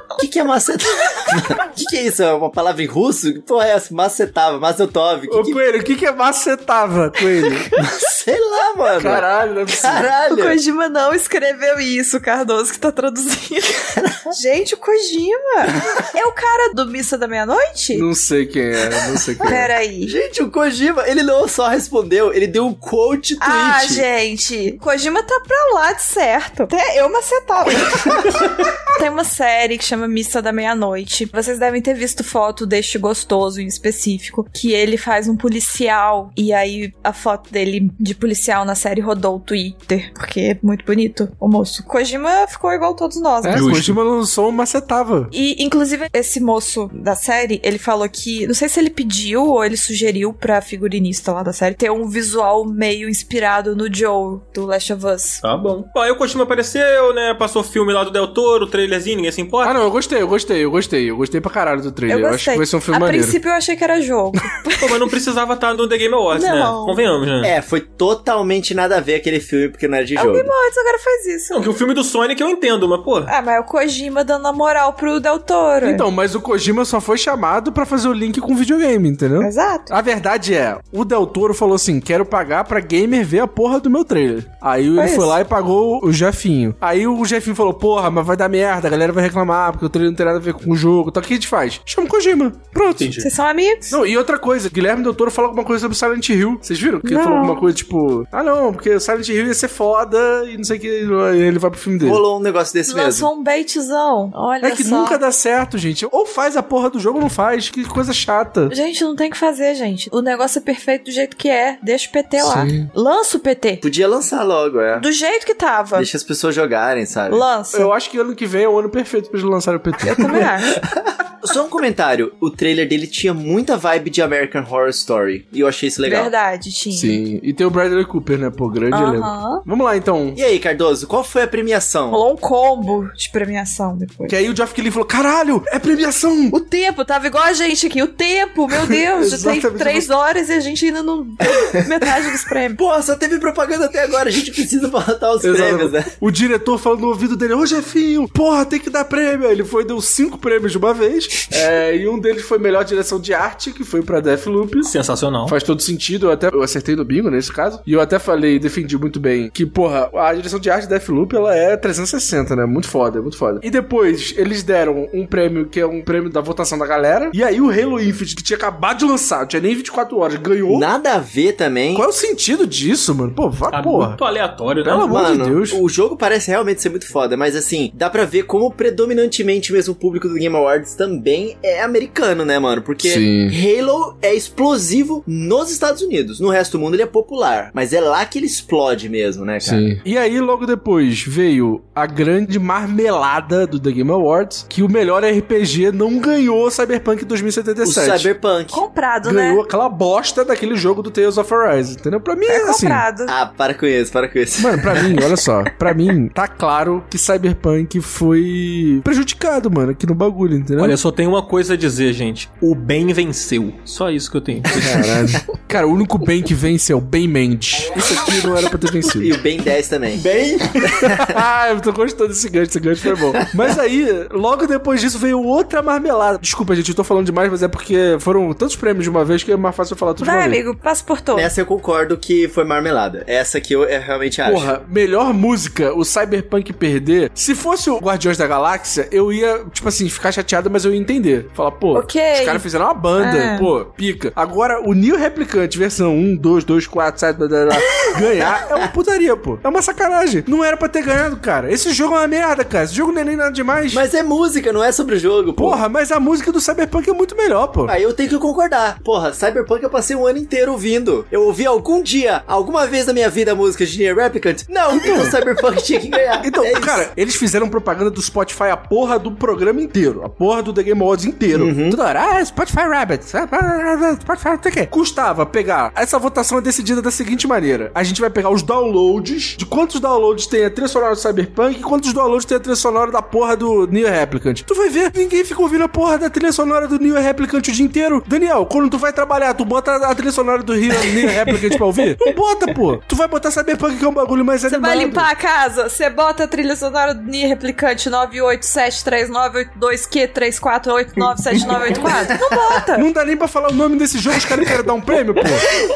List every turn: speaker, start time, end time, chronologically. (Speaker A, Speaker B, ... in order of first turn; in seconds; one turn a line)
Speaker A: 0.2-5.6
Speaker B: 5.3-7.9
Speaker A: 8.0-10.6
Speaker B: 9.0-10.1
Speaker C: 10.3-18.1
Speaker B: 17.9-19.7
Speaker C: 19.4-20.1
Speaker A: 20.1-24.0
Speaker C: 23.4-28.3
Speaker C: 28.9-43.7
Speaker B: 43.4-45.3
Speaker D: 43.5-44.0
Speaker C: 45.3-55.4
Speaker D: 55.4-59.8
Speaker B: 59.6-63.4
Speaker C: 62.1-64.9
Speaker D: 64.8-67.5
Speaker C: 66.3-67.0
Speaker A: 67.4-70.5
Speaker C: 70.2-71.7
Speaker D: 71.5-73.3
Speaker C: 73.3-76.0
Speaker B: 75.8-93.1
Speaker C: 79.4-79.9
Speaker C: 85.0-85.3
Speaker D: 93.0-93.3
Speaker C: 93.2-93.9
Speaker B: 93.9-102.2
Speaker C: 97.0-97.7
Speaker A: 102.0-103.3
Speaker C: 102.9-105.2
Speaker B: 104.6-108.7
Speaker C: 108.7-113.8
Speaker B: 112.4-112.9
Speaker A: 113.8-115.0
Speaker C: 115.0-116.1
Speaker A: 116.0-117.4
Speaker C: 117.3-117.9
Speaker B: 117.7-120.5
Speaker C: 120.0-120.8
Speaker A: 121.0-126.3
Speaker C: 126.0-127.2
Speaker B: 126.9-130.4
Speaker C: 128.9-129.7
Speaker A: 130.4-132.2
Speaker C: 132.1-134.4
Speaker B: 134.3-136.6
Speaker C: 136.5-142.8
Speaker B: 138.8-140.1
Speaker A: 142.8-146.1
Speaker B: 145.4-154.9
Speaker D: 154.8-155.6
Speaker B: 155.5-170.9
Speaker A: 170.7-172.1
Speaker B: 171.9-174.2
Speaker D: 173.7-175.3
Speaker B: 174.8-175.8
Speaker A: 175.1-189.9
Speaker B: 183.0-183.6
Speaker B: 189.6-198.3
Speaker A: 197.8-198.8
Speaker C: 198.7-199.6
Speaker B: 199.2-203.0
Speaker C: 202.5-203.3
Speaker A: 203.3-205.2
Speaker B: 204.6-211.0
Speaker D: 210.8-215.2
Speaker B: 214.8-219.4
Speaker A: 219.2-220.2
Speaker D: 220.2-221.1
Speaker A: 220.9-221.3
Speaker B: 221.2-230.6
Speaker C: 230.2-231.5
Speaker A: 231.3-234.7
Speaker B: 234.4-254.1
Speaker C: 241.9-242.6
Speaker C: 243.2-243.7
Speaker A: 248.4-248.8
Speaker A: 253.9-255.8
Speaker B: 255.6-257.9
Speaker A: 257.9-267.0
Speaker B: 264.9-265.4
Speaker B: 266.4-295.3
Speaker A: 271.5-272.0
Speaker C: 294.7-303.1
Speaker B: 303.0-305.6